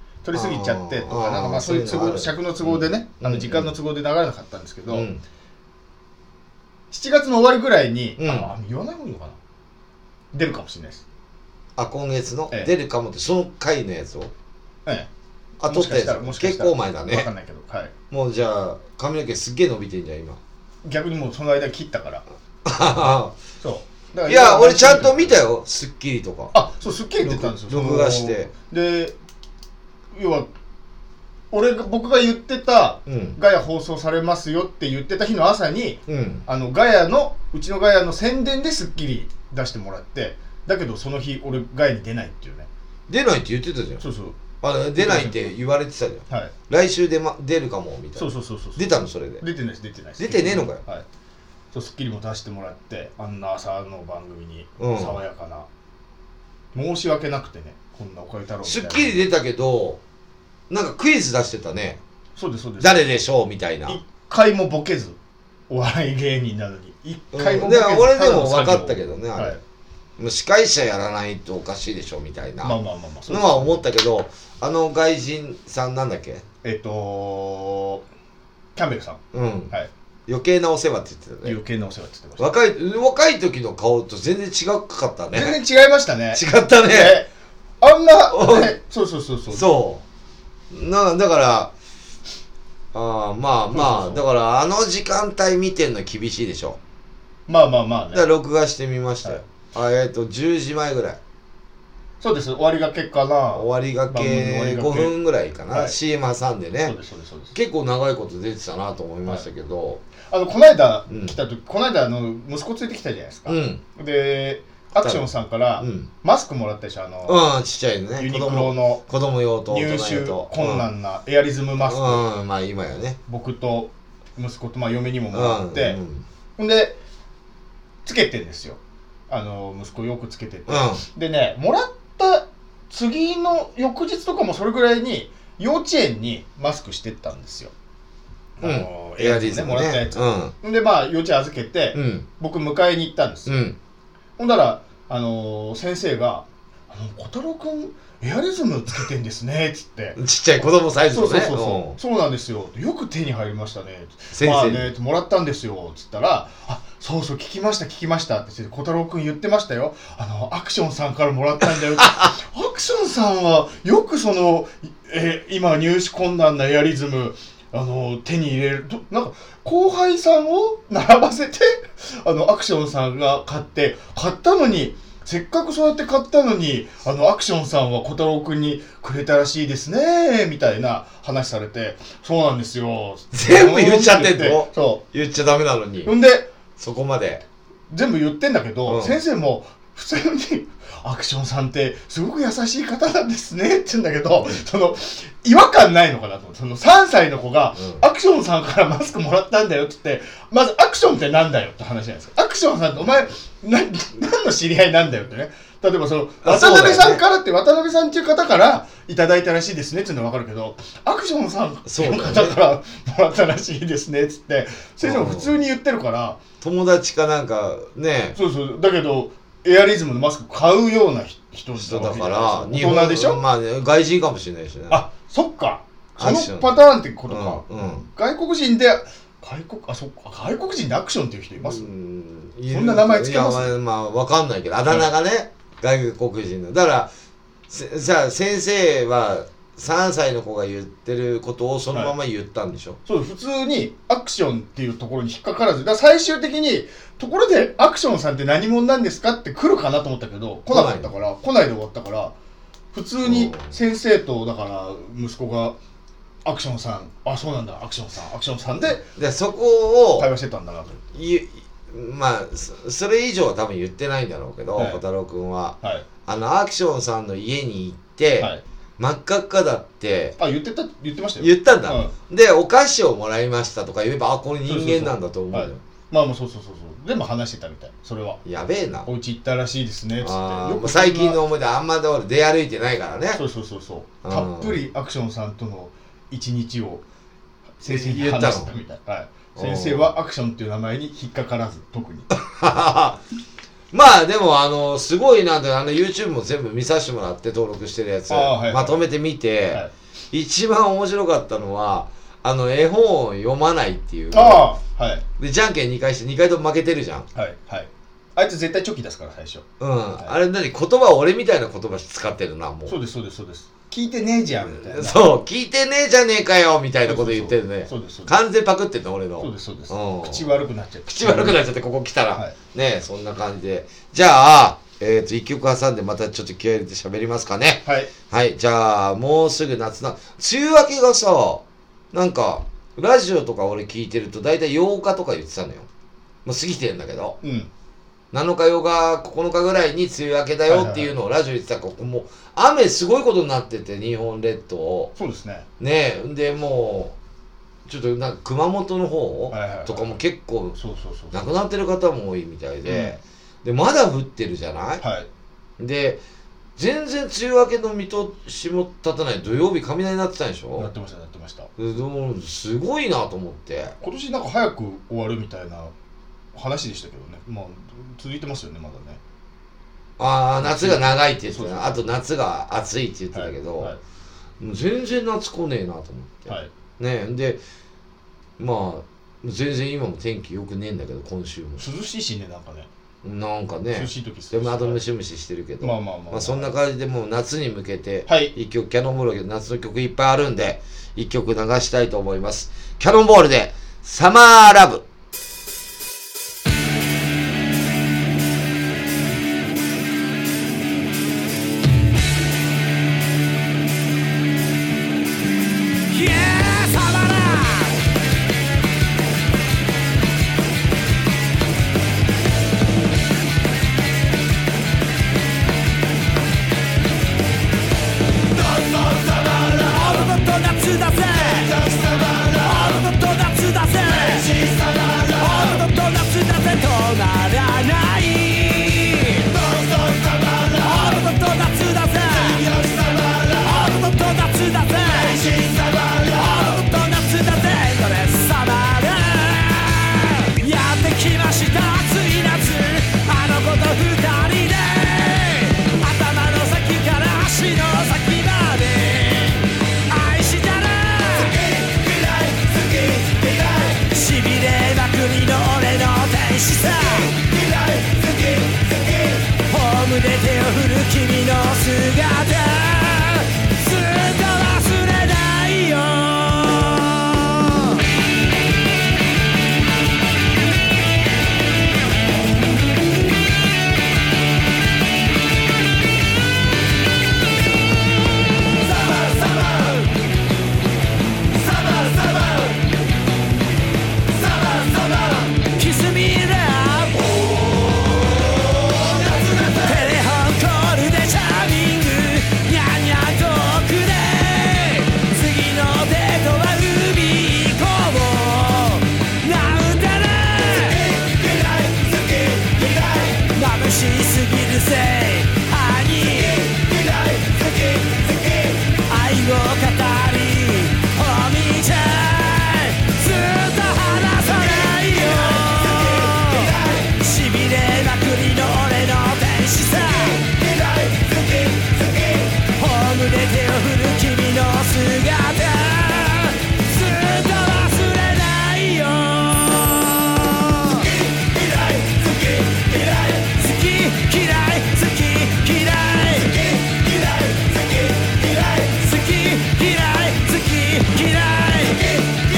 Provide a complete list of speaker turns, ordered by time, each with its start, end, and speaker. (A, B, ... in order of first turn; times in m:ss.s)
0:00.2-0:05.1 A
0:00.3-0:03.7 B
0:04.9-0:05.2 B
0:06.9-0:09.4 A
0:08.2-0:08.5 B
0:10.3-0:11.0 A
0:11.8-0:14.3 B
0:15.6-0:17.3 B
0:15.7-0:17.9 A
0:18.1-0:20.4 B
0:20.8-0:22.2 A
0:22.6-0:23.4 B
0:23.6-0:25.4 A
0:24.3-0:26.5 B
0:26.5-0:29.2 A
0:27.2-0:28.5 B
0:30.1-0:30.5 A
0:31.5-0:42.7 A
0:33.1-0:33.4 B
0:36.1-0:36.4 B
0:43.1-0:44.0 B
0:44.0-0:44.4 A
0:44.6-0:49.4 B
0:45.0-0:45.4 A
0:46.3-0:46.5 A
0:48.2-0:51.1 A
0:50.2-0:50.8 B
0:51.7-0:55.7 A
0:54.8-0:55.2 B
0:56.7-0:59.2 A
0:58.6-1:00.0 B
1:00.7-1:02.0 B
1:02.4-1:03.1 A
1:02.8-1:04.0 B
1:03.9-1:05.2 A
1:05.7-1:09.6 A
1:07.3-1:09.6 B
1:10.2-1:12.8 B
1:12.6-1:13.8 A
1:13.3-1:16.4 B
1:16.6-1:18.0 A
1:18.8-1:19.9 A
1:19.3-1:19.7 B
1:20.3-1:21.6 B
1:21.4-1:22.5 A
1:22.4-1:25.6 B
1:25.3-1:27.3 A
1:26.3-1:27.2 B
1:27.8-1:29.7 A
1:28.3-1:28.8 B
1:29.5-1:30.0 B
1:30.7-1:31.7 B
1:32.9-1:36.8 B
1:33.7-1:34.2 A
1:37.5-1:38.2 A
1:38.1-1:41.2 B
1:42.2-1:45.1 A
1:43.5-1:47.0 B
1:45.7-1:46.0 A
1:46.8-1:47.6 A
1:47.5-1:50.0 B
1:50.3-1:57.4 A
1:51.1-1:51.4 B
1:53.5-1:53.8 B
1:55.0-1:55.2 B
1:55.8-1:56.1 B
1:57.3-2:00.9 B
1:58.2-1:59.0 A
1:59.7-2:02.3 A
2:01.9-2:03.2 B
2:03.3-2:06.0 A
2:05.3-2:06.2 B
2:06.6-2:07.0 A
2:08.0-2:17.7 A
2:10.7-2:11.0 B
2:18.6-2:23.6 A
2:18.6-2:20.5 B
2:21.9-2:22.3 B
2:23.5-2:23.8 B
2:24.4-2:30.2 A
2:30.2-2:32.0 B
2:31.1-3:05.0 A
2:34.3-2:34.9 B
2:42.0-2:42.3 B
3:03.3-3:06.1 B
3:06.0-3:06.5 A
3:06.8-3:07.4 B
3:07.9-3:36.4 A
3:08.9-3:09.2 B
3:26.4-3:27.2 B
3:31.8-3:32.6 B
3:35.0-3:35.6 B
3:36.6-3:38.4 B
3:38.4-3:43.4 A
3:41.8-3:45.0 B
3:44.9-3:51.9 A
3:46.2-3:46.8 B
3:47.3-3:48.0 B
3:51.6-3:57.1 B
3:52.7-3:53.7 A
3:57.7-4:03.0 B
4:03.1-4:12.4 A
4:10.7-4:11.1 B
4:12.9-4:15.8 A
4:13.2-4:13.7 B
4:16.4-4:19.1 A
4:19.2-4:20.3 B
4:20.2-4:21.1 A
4:21.1-4:30.4 B
4:24.8-4:25.0 A
4:30.4-4:32.1 A
4:31.4-4:35.8 B
4:34.7-4:38.4 A
4:38.4-4:39.1 B
4:39.0-4:41.4 A
4:40.2-4:43.4 B
4:43.3-4:47.0 A
4:44.2-4:44.8 B
4:47.8-4:52.3 A
4:47.8-4:48.7 B
4:49.6-4:50.1 B
4:52.4-4:53.2 B
4:53.9-5:04.7 B
4:58.3-4:59.1 A
5:04.3-5:05.2 A
5:05.4-5:07.3 B
5:07.4-5:09.7 A
5:09.8-5:13.0 B
5:12.9-5:15.4 A
5:14.7-5:20.5 B
5:17.1-5:18.4 A
5:19.4-5:21.6 A
5:21.1-5:35.9 B
5:27.8-5:28.1 A
5:36.4-5:37.4 B
5:37.4-5:37.7 A
5:38.3-5:45.1 B
5:40.7-5:41.1 A
5:45.2-5:45.7 A
5:45.8-5:47.2 B
5:47.9-5:50.8 B
5:49.5-5:50.2 A
5:50.8-5:51.5 A
5:51.3-5:55.0 B
5:52.9-5:53.2 A
5:55.0-5:55.3 A
5:55.8-5:56.2 B
5:56.8-6:00.9 B
6:00.8-6:01.7 A
6:01.8-6:04.0 B
6:04.0-6:05.9 A
6:06.5-6:09.2 A
6:10.2-6:14.0 B
6:10.6-6:12.0 A
6:13.3-6:14.0 A
6:14.6-6:17.6 B
6:18.6-6:21.8 B
6:21.8-6:22.9 A
6:23.2-6:35.0 B
6:23.9-6:25.0 A
6:25.8-6:26.7 A
6:28.3-6:28.5 A
6:46.1-6:48.0 C
6:59.5-7:31.7 C
7:32.7-7:37.6 C
7:39.5-7:48.0 C
8:05.6-8:07.4 C
8:09.5-8:21.6 C
8:22.1-8:40.6 C
8:42.6-8:51.1 C
8:52.7-8:56.8 C
8:58.3-9:02.2 C